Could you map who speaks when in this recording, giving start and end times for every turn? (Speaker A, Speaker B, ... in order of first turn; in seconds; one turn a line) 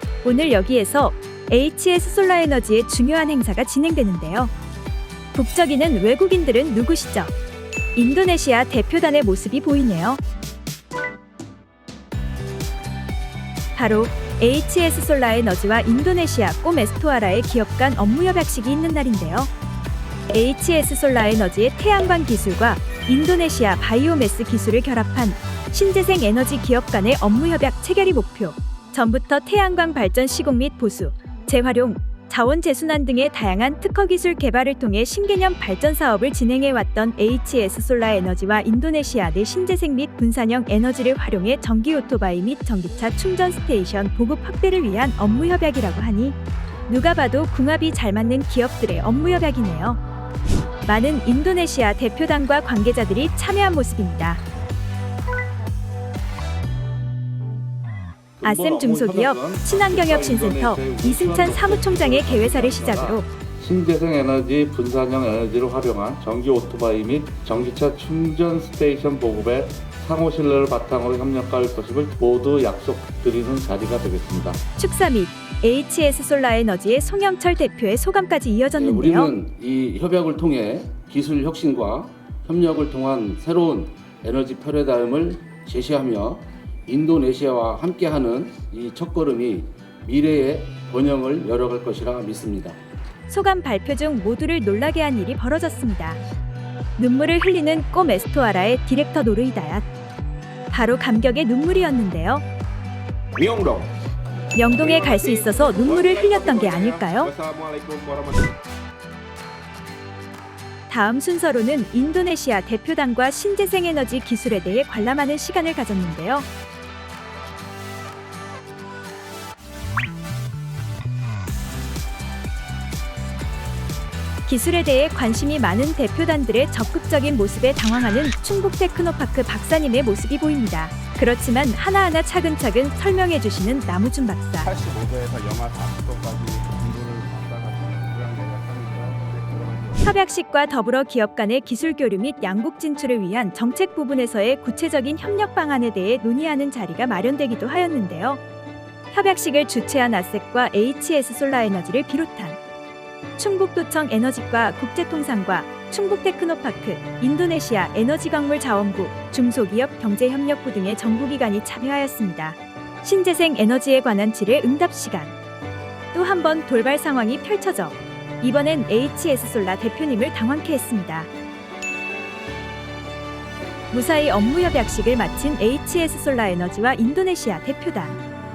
Speaker A: 0.2-4.5
Speaker A: 5.3-7.3
Speaker A: 7.9-10.2
Speaker A: 13.7-19.5
Speaker A: 20.3-50.0
Speaker A: 50.8-54.4
Speaker B: 58.4-74.6
Speaker A: 58.4-63.3
Speaker A: 74.8-79.3
Speaker C: 78.8-92.8
Speaker A: 93.3-96.2
Speaker A: 97.0-99.8
Speaker A: 100.7-102.4
Speaker D: 103.3-103.9
Speaker A: 104.5-107.3
Speaker D: 104.6-108.6
Speaker A: 110.9-116.5
Speaker A: 124.5-134.7
Speaker D: 134.6-140.1
Speaker A: 140.0-148.4
Speaker A: 149.1-152.6
Speaker A: 153.4-165.3
Speaker A: 166.1-171.3
Speaker A: 173.9-178.2